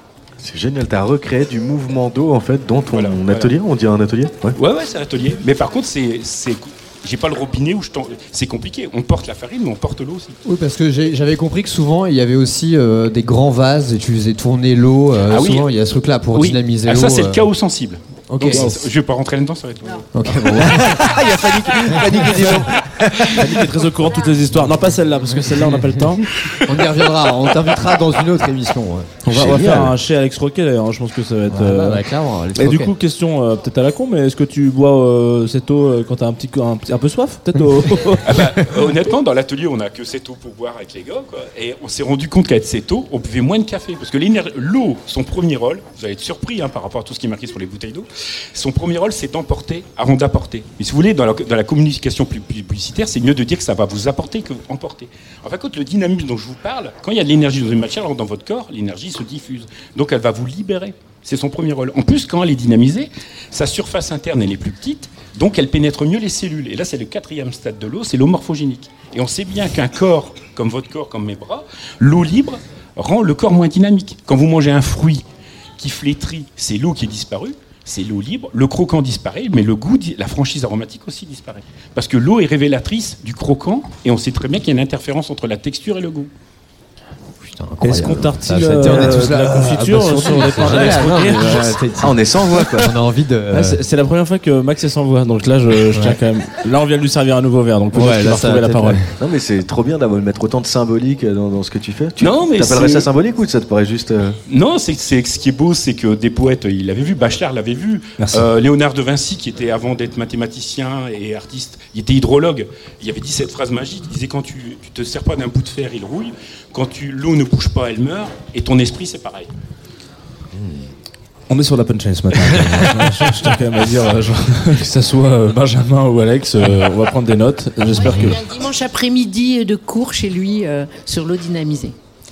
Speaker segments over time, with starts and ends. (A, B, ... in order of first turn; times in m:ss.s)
0:00.4-0:04.6 A
0:02.9-0:03.6 B
0:04.6-0:10.4 B
0:10.4-0:17.5 C
0:15.3-0:15.7 B
0:16.3-0:20.1 B
0:18.3-0:18.7 C
0:20.1-0:21.1 C
0:20.5-0:23.9 A
0:21.9-0:22.3 C
0:23.4-0:26.3 D
0:25.3-0:26.0 C
0:26.6-0:29.3 C
0:29.3-0:30.0 A
0:29.3-0:38.3 D
0:31.5-0:32.9 C
0:38.2-1:15.2 B
1:15.8-1:26.3 B
1:27.4-1:33.8 C
1:27.8-1:31.8 D
1:30.5-1:33.0 A
1:33.5-1:39.1 D
1:35.9-1:36.2 C
1:37.9-1:39.1 C
1:39.2-1:44.4 A
1:42.2-1:43.1 B
1:44.5-1:59.5 B
1:48.2-1:48.5 D
2:00.5-2:00.8 A
2:01.5-2:08.4 D
2:08.0-2:12.0 E